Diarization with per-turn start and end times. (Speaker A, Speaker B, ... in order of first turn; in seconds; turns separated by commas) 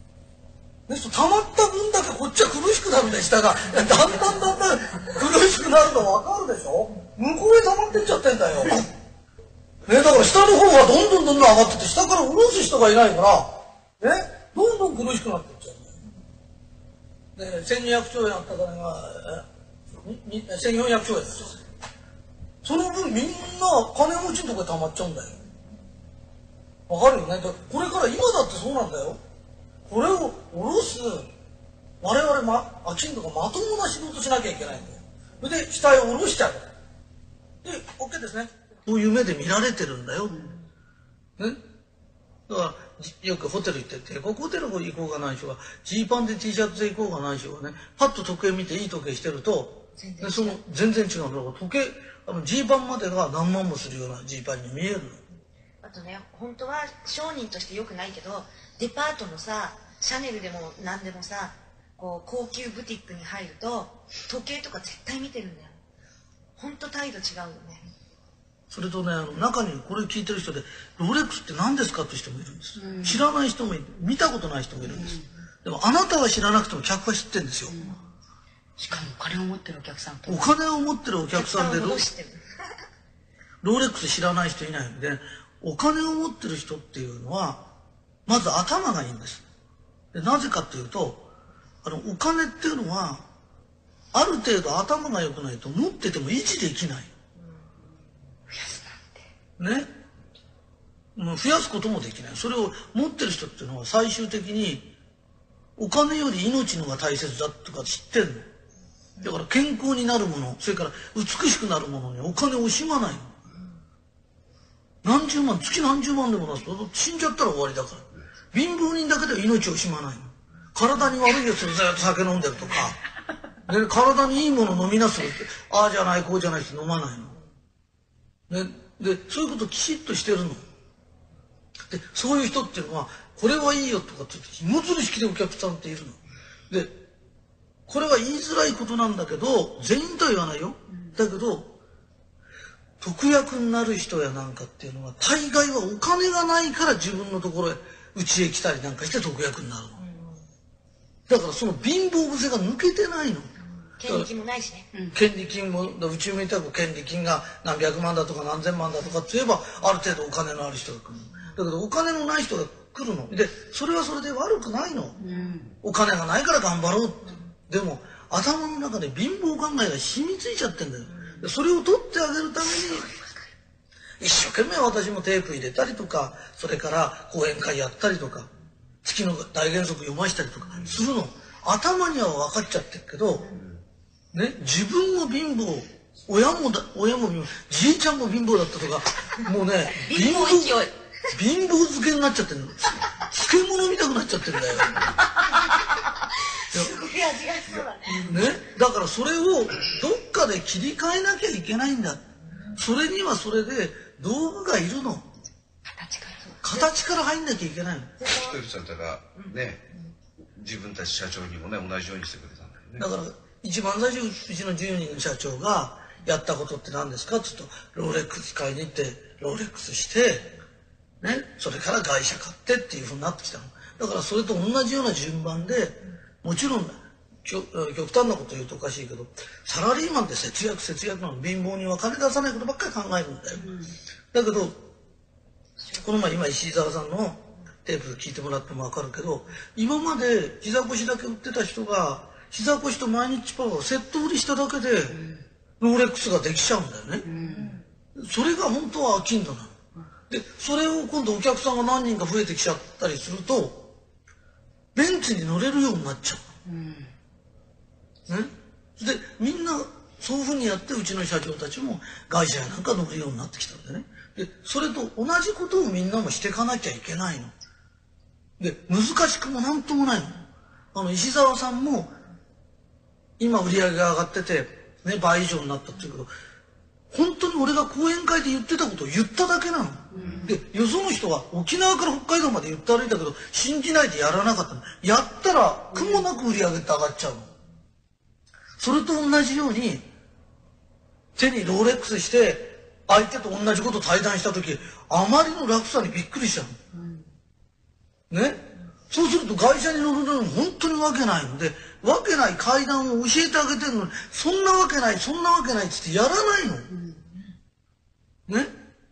Speaker A: 0.9-8.9, Speaker A: 9.8-15.9, Speaker A: 17.4-19.4, Speaker A: 20.0-21.6, Speaker A: 22.6-25.4, Speaker A: 26.9-29.2, Speaker A: 29.9-31.3, Speaker A: 32.0-36.6, Speaker A: 37.6-40.5, Speaker A: 42.5-55.2, Speaker B: 50.0-50.6, Speaker B: 55.8-65.7, Speaker B: 66.6-67.8, Speaker A: 68.7-77.8, Speaker C: 72.8-73.2, Speaker C: 75.0-75.2, Speaker C: 77.7-78.0, Speaker C: 78.8-80.6, Speaker A: 80.3-82.0, Speaker B: 81.3-82.4, Speaker A: 83.6-87.7, Speaker A: 88.2-89.4, Speaker A: 90.1-91.2, Speaker A: 91.8-93.2, Speaker A: 94.1-97.1, Speaker C: 98.5-99.2, Speaker A: 99.6-99.9, Speaker A: 101.2-104.9, Speaker A: 105.8-108.5, Speaker A: 109.2-113.3, Speaker A: 115.0-123.0, Speaker A: 123.7-127.3, Speaker A: 128.5-130.6, Speaker A: 131.9-136.2, Speaker A: 137.9-141.8, Speaker A: 143.0-150.0, Speaker B: 150.0-150.4, Speaker A: 151.3-153.5, Speaker B: 154.0-154.8, Speaker A: 155.1-165.2, Speaker C: 165.2-165.7, Speaker A: 165.8-173.1, Speaker A: 174.2-178.5, Speaker A: 179.0-183.5, Speaker A: 184.3-190.8, Speaker B: 189.9-190.9, Speaker A: 191.3-195.2, Speaker B: 195.2-196.0, Speaker B: 196.7-198.4, Speaker A: 198.1-205.3, Speaker C: 205.9-206.4, Speaker B: 206.5-206.8, Speaker A: 206.6-208.2, Speaker B: 208.2-208.6, Speaker D: 208.2-209.9, Speaker D: 210.6-213.1, Speaker A: 213.0-220.5, Speaker A: 221.2-233.7, Speaker C: 233.6-233.9, Speaker A: 234.3-234.8, Speaker A: 236.0-245.2, Speaker C: 245.1-245.4, Speaker A: 245.8-247.2, Speaker C: 247.2-247.8, Speaker B: 247.4-247.8, Speaker A: 248.1-249.7, Speaker A: 250.3-253.9, Speaker A: 254.9-256.5, Speaker C: 256.6-257.1, Speaker A: 258.3-267.5, Speaker A: 268.6-272.1, Speaker A: 273.4-276.3, Speaker A: 277.1-287.5, Speaker C: 280.1-280.6, Speaker C: 285.9-286.2, Speaker A: 288.8-290.1, Speaker A: 291.4-296.8, Speaker C: 296.9-297.2, Speaker A: 298.3-306.9, Speaker C: 306.9-307.2, Speaker A: 308.5-308.7